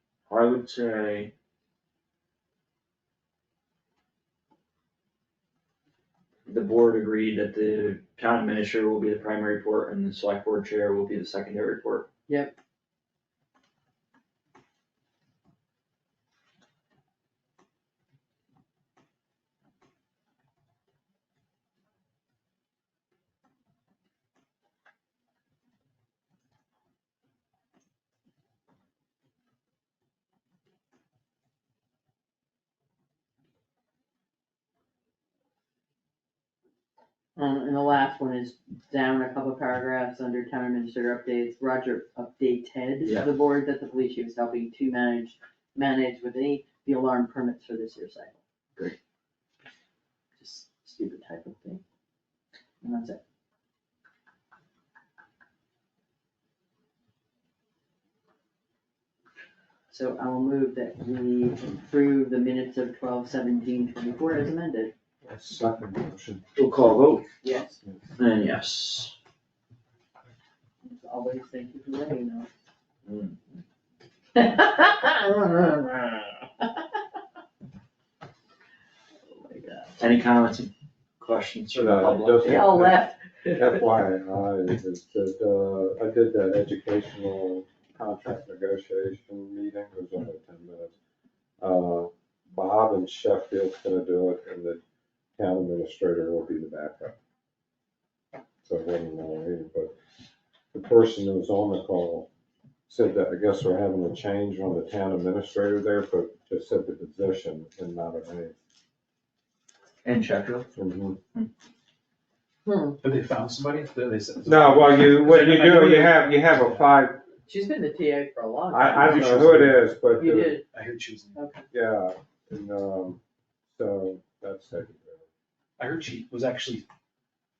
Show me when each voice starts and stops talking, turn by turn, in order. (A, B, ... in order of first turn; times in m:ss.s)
0:00.3-0:01.3 A
0:06.5-0:12.1 A
0:12.3-0:12.6 B
0:37.4-0:48.4 B
0:43.0-0:43.3 A
0:50.4-0:51.8 B
0:52.8-0:53.2 B
0:59.9-1:04.9 B
1:05.2-1:06.4 C
1:06.6-1:07.3 A
1:07.4-1:07.8 B
1:08.2-1:09.1 A
1:10.8-1:12.5 B
1:13.0-1:13.4 A
1:14.4-1:16.7 B
1:19.3-1:20.0 B
1:20.0-1:22.8 A
1:21.7-1:30.9 C
1:22.4-1:23.6 B
1:31.6-1:34.8 C
1:35.4-1:37.2 C
1:38.6-1:39.9 C
1:40.7-1:42.3 C
1:42.9-1:48.5 C
1:50.0-1:50.7 A
1:50.8-1:51.2 C
1:52.7-1:53.0 B
1:53.0-1:56.9 D
1:54.5-1:57.2 C
1:57.5-1:59.3 B
1:58.7-2:00.6 C
1:59.1-2:01.4 D
2:00.2-2:00.6 B
2:01.4-2:01.6 B
2:01.7-2:03.2 C
2:03.7-2:05.3 C
2:05.8-2:06.9 D